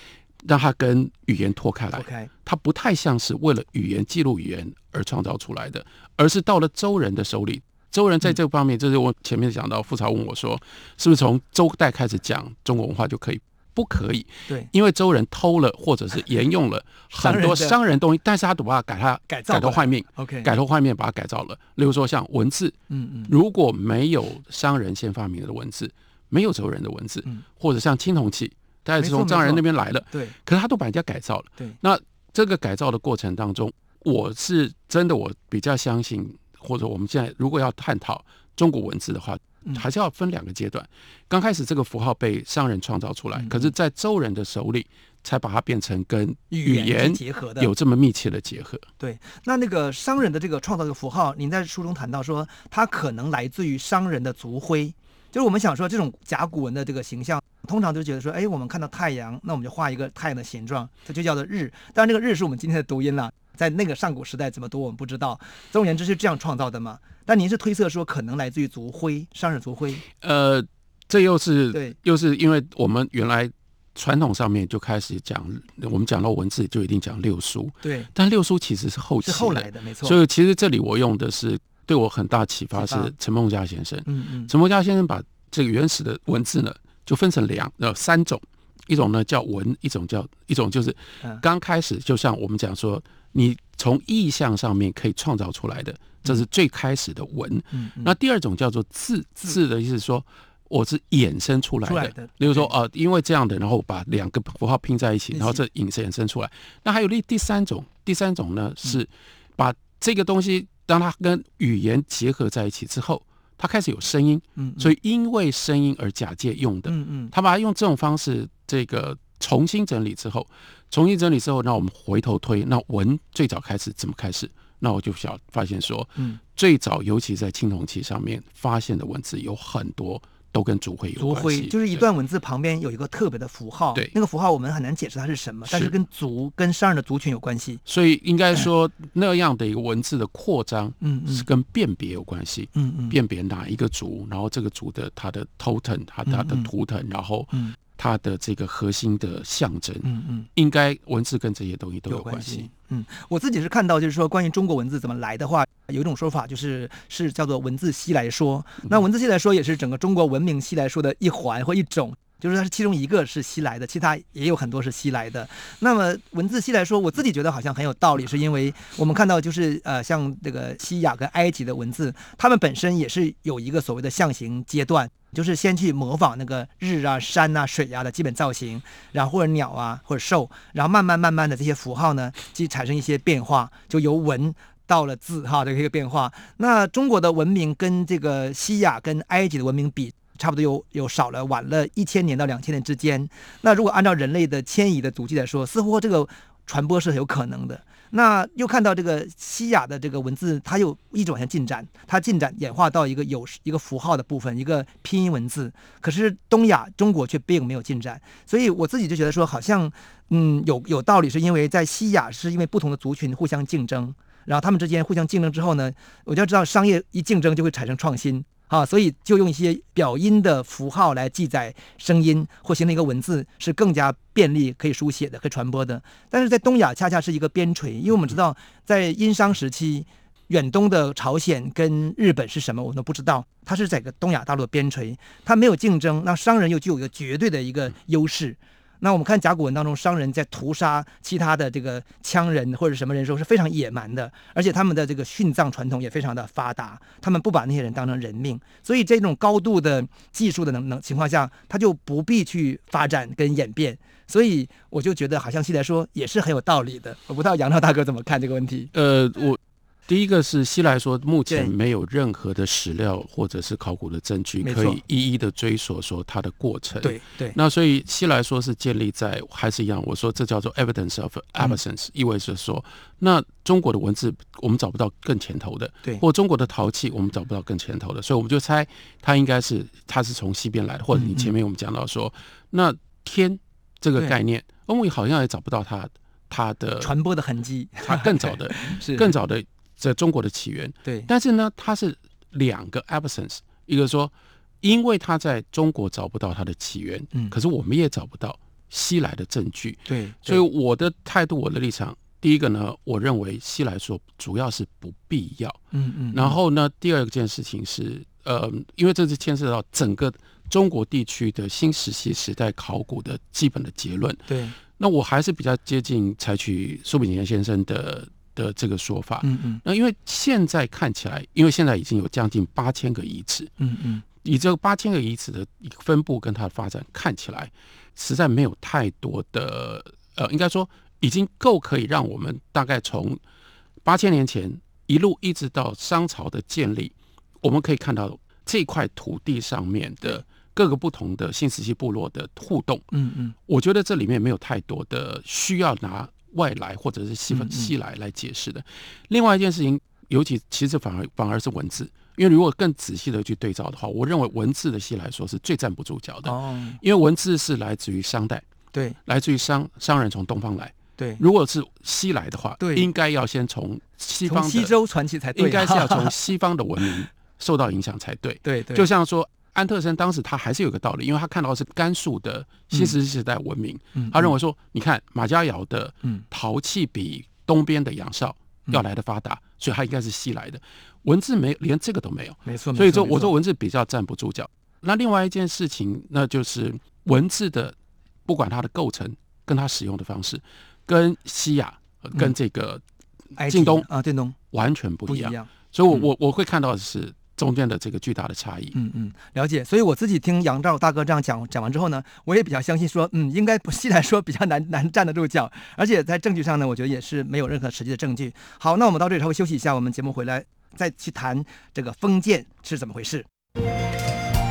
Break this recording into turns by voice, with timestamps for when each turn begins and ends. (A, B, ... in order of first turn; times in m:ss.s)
0:00.4-0:22.8 A
0:01.9-0:02.3 B
0:17.2-0:17.8 B
0:19.3-0:20.5 B
0:22.9-0:23.3 B
0:23.3-0:48.9 A
0:29.0-0:30.4 B
0:43.4-0:43.7 B
0:46.5-0:47.7 B
0:49.0-1:10.0 B
1:10.1-2:12.0 A
1:17.8-1:18.1 B
1:19.2-1:20.2 B
1:22.8-1:23.1 B
1:24.1-1:24.5 B
1:37.7-1:38.1 B
1:41.8-1:42.7 B
1:45.3-1:45.6 B
1:54.6-1:54.9 B
1:56.9-1:57.3 B
2:11.2-2:17.8 B
2:15.7-2:15.9 A
2:17.9-2:32.7 A
2:21.0-2:21.5 B
2:22.8-2:23.2 B
2:26.3-2:26.7 B
2:30.0-2:30.5 B
2:32.1-4:18.9 B
4:18.9-4:47.1 A
4:24.6-4:25.0 B
4:27.0-4:27.6 B
4:41.1-4:41.5 B
4:47.0-4:49.3 B
4:48.0-5:05.8 A
5:00.1-5:00.6 B
5:05.9-5:06.6 B
5:06.3-5:23.7 A
5:14.5-5:14.8 B
5:19.4-5:19.8 B
5:23.8-5:24.2 B
5:24.4-5:33.4 A
5:34.0-5:43.1 A
5:43.1-5:43.6 B
5:43.7-5:58.6 A
5:47.5-5:47.9 B
5:56.4-5:57.0 B
5:59.3-6:04.9 A
6:02.8-6:03.1 B
6:04.4-6:06.3 B
6:05.6-6:28.0 A
6:08.6-6:09.1 B
6:14.2-6:14.5 B
6:22.7-6:23.5 B
6:28.5-6:33.0 A
6:33.6-6:34.6 B
6:33.7-6:34.1 A
6:34.7-6:39.0 A
6:35.3-6:35.7 B
6:38.9-6:53.5 B